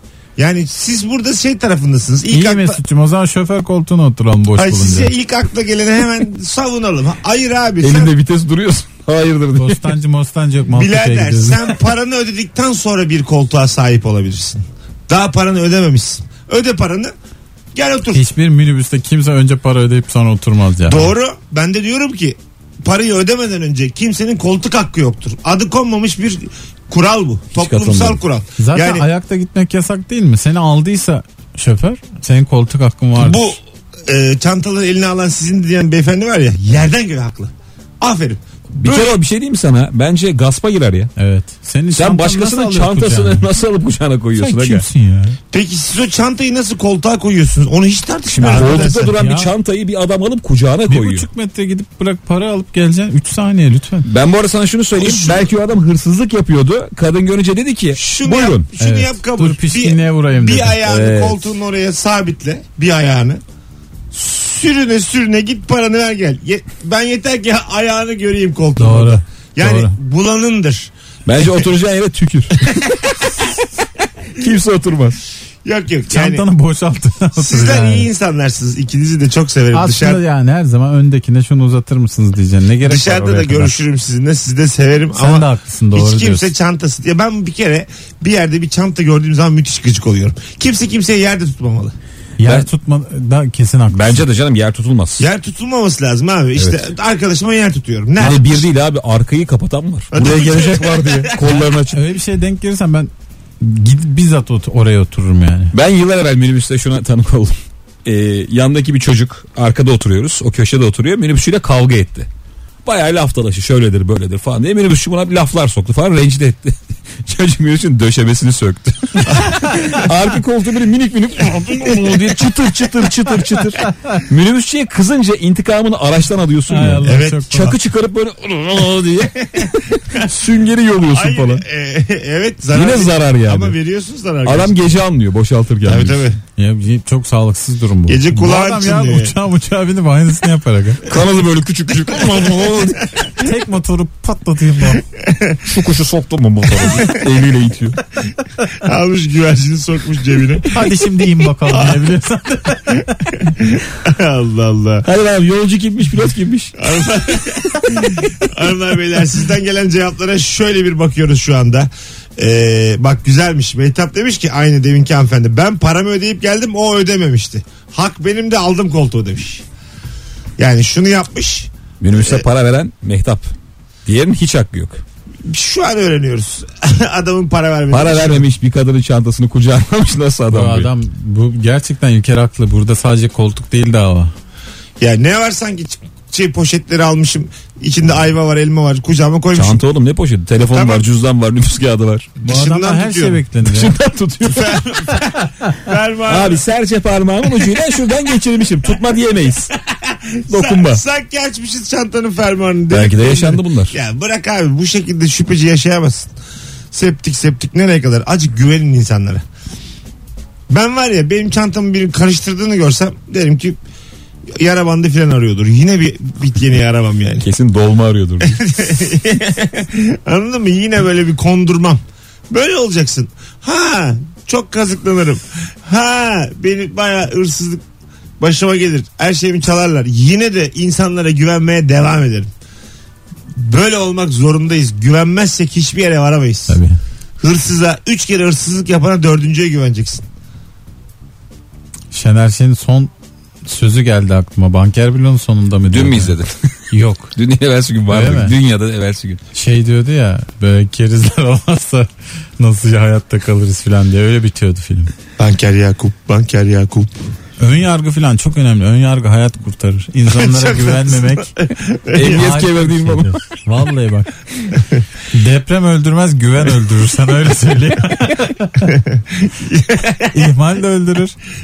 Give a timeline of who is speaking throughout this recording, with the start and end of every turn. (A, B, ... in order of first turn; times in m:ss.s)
0:00.4-0:02.8 A
0:02.3-0:05.1 B
0:04.6-0:08.1 A
0:07.8-0:09.9 C
0:09.6-0:11.7 B
0:10.7-0:17.1 A
0:17.7-0:18.2 A
0:18.1-0:21.1 B
0:20.9-0:29.0 A
0:27.5-0:28.2 C
0:28.6-0:33.6 B
0:33.2-0:39.2 A
0:38.8-0:41.1 C
0:41.2-0:43.5 B
0:42.0-0:44.8 C
0:44.4-0:45.4 B
0:45.5-0:49.1 A
0:48.3-0:51.3 C
0:48.4-0:49.5 B
0:50.9-0:54.1 B
0:54.0-0:58.7 C
0:55.0-0:55.5 A
0:57.9-1:03.4 A
0:58.8-1:00.8 B
1:00.8-1:01.5 C
1:04.1-1:11.6 A
1:08.8-1:09.9 B
1:11.2-1:12.8 C
1:12.6-1:13.0 A
1:14.3-1:15.2 C
1:15.6-1:16.4 A
1:16.1-1:18.1 B
1:17.4-1:20.2 A
1:19.7-1:23.7 B
1:22.8-1:31.9 A
1:25.2-1:26.5 B
1:32.4-1:34.2 B
1:33.9-1:35.2 C
1:35.2-1:38.6 A
1:36.6-1:36.8 C
1:38.2-1:42.0 C
1:40.1-1:41.6 A
1:41.9-1:45.7 B
1:45.7-1:52.3 C
1:52.8-2:11.6 C
2:06.7-2:07.7 B
2:07.0-2:07.7 A
2:09.4-2:10.3 A
2:11.1-2:14.8 A
2:12.7-2:13.8 C
2:14.4-2:16.3 C
2:15.8-2:16.4 A
2:16.6-2:21.1 B
2:18.1-2:19.3 A
2:21.0-2:23.3 C
2:23.4-2:25.0 B
2:25.1-2:25.6 A
2:25.6-2:28.0 C
2:26.8-2:27.2 A
2:28.7-2:30.8 A
2:30.7-2:33.3 B
2:31.7-2:32.1 A
2:33.4-2:35.0 A
2:35.0-2:36.8 C
2:36.8-2:49.6 A
2:50.6-2:52.4 A
2:52.0-2:53.5 C
2:54.0-2:55.0 C
2:55.4-2:58.4 A
2:57.9-3:00.9 C
3:00.5-3:04.3 B
3:05.0-3:09.8 A
3:09.5-3:12.3 C
3:10.7-3:11.1 A
3:12.4-3:13.4 A
3:12.4-3:13.9 B
3:13.6-3:15.2 C
3:14.4-3:16.6 A
3:16.2-3:19.7 C
3:19.8-3:26.3 A
3:20.5-3:21.0 C
3:22.9-3:24.0 C
3:26.9-3:29.4 A
3:30.7-3:33.8 A
3:34.5-3:37.5 A
3:37.4-3:38.6 C
3:38.4-3:47.8 A
3:48.4-3:52.5 A
3:53.5-3:56.8 A
3:56.7-3:57.0 B
3:57.4-4:00.2 A
4:02.1-4:03.1 B
4:03.6-4:06.3 B
4:05.9-4:06.7 C
4:06.9-4:07.3 B
4:07.3-4:09.4 C
4:08.1-4:08.5 B
4:09.5-4:15.1 B
4:15.4-4:17.3 A
4:17.6-4:21.5 B
4:20.3-4:22.6 A
4:22.1-4:23.4 C
4:22.2-4:24.3 B
4:25.3-4:28.9 B
4:28.8-4:30.5 A
4:30.3-4:31.3 B